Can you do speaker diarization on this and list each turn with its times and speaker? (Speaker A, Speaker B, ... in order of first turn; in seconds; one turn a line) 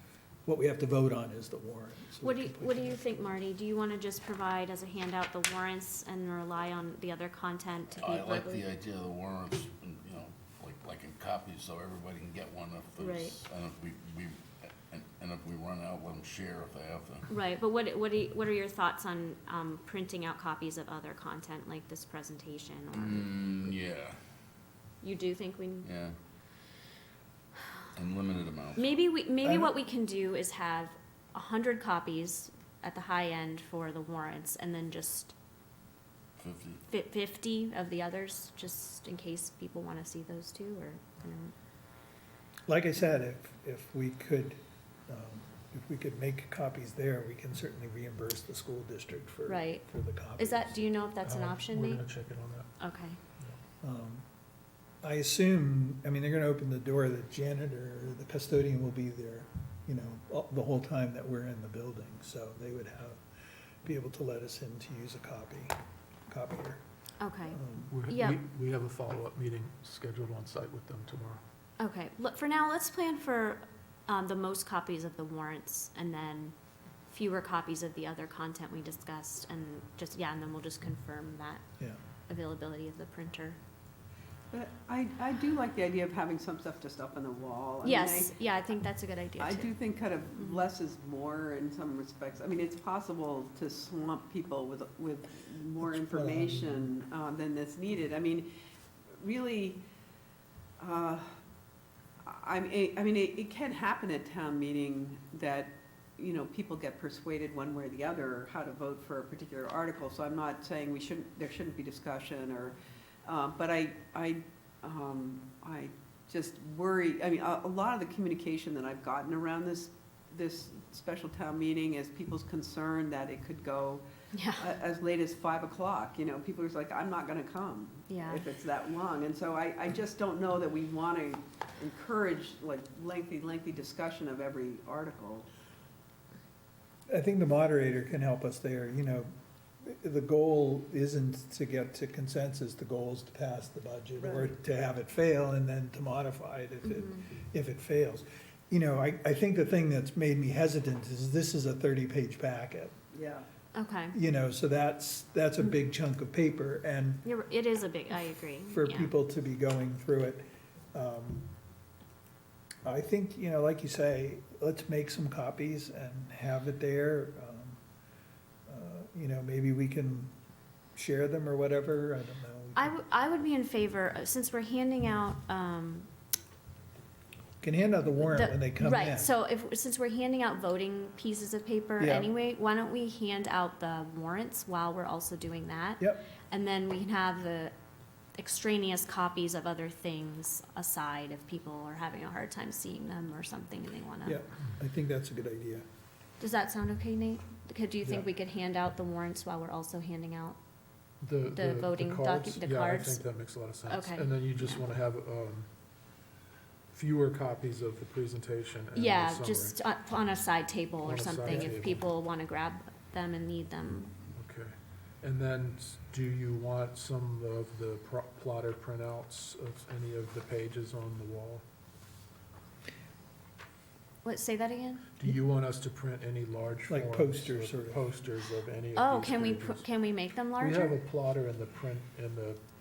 Speaker A: 0.5-3.3
Speaker B: 2.2-8.7
Speaker C: 8.0-17.3
Speaker B: 13.0-13.4
Speaker B: 17.3-23.7
Speaker C: 22.9-24.2
Speaker B: 25.0-25.9
Speaker C: 25.8-26.2
Speaker C: 27.9-29.0
Speaker B: 28.8-35.3
Speaker A: 29.4-29.7
Speaker C: 36.4-36.8
Speaker B: 36.9-41.5
Speaker A: 42.7-50.8
Speaker B: 49.5-52.0
Speaker D: 51.2-52.7
Speaker B: 52.8-53.2
Speaker A: 53.8-54.2
Speaker A: 55.0-63.2
Speaker A: 63.8-65.8
Speaker A: 66.3-66.8
Speaker B: 67.2-68.4
Speaker A: 67.5-67.9
Speaker D: 67.9-71.4
Speaker B: 71.8-76.5
Speaker B: 77.1-81.6
Speaker B: 82.3-83.6
Speaker E: 84.5-88.3
Speaker B: 87.8-89.7
Speaker E: 89.4-98.5
Speaker A: 95.8-96.9
Speaker E: 99.2-99.8
Speaker E: 100.8-101.3
Speaker E: 102.2-124.0
Speaker B: 124.3-124.7
Speaker E: 124.5-135.5
Speaker B: 128.1-128.4
Speaker A: 137.1-153.0
Speaker E: 144.2-144.5
Speaker B: 146.9-147.2
Speaker E: 153.1-153.4
Speaker B: 153.7-154.2
Speaker A: 154.1-157.2
Speaker B: 157.2-159.1
Speaker A: 158.7-161.5
Speaker A: 162.8-167.8
Speaker A: 168.7-170.3
Speaker A: 170.9-172.9
Speaker B: 172.8-176.1
Speaker A: 177.6-179.3
Speaker B: 178.2-187.7
Speaker A: 182.0-182.3
Speaker B: 188.3-194.4
Speaker A: 194.2-195.8
Speaker B: 196.4-200.6
Speaker D: 201.2-205.7
Speaker B: 201.5-203.2
Speaker B: 203.8-204.8
Speaker D: 206.9-209.8
Speaker B: 208.9-214.2
Speaker D: 211.0-212.1
Speaker D: 214.3-221.6
Speaker B: 224.2-225.1
Speaker D: 225.2-229.8
Speaker A: 226.9-228.1
Speaker B: 228.9-230.9
Speaker D: 230.6-232.6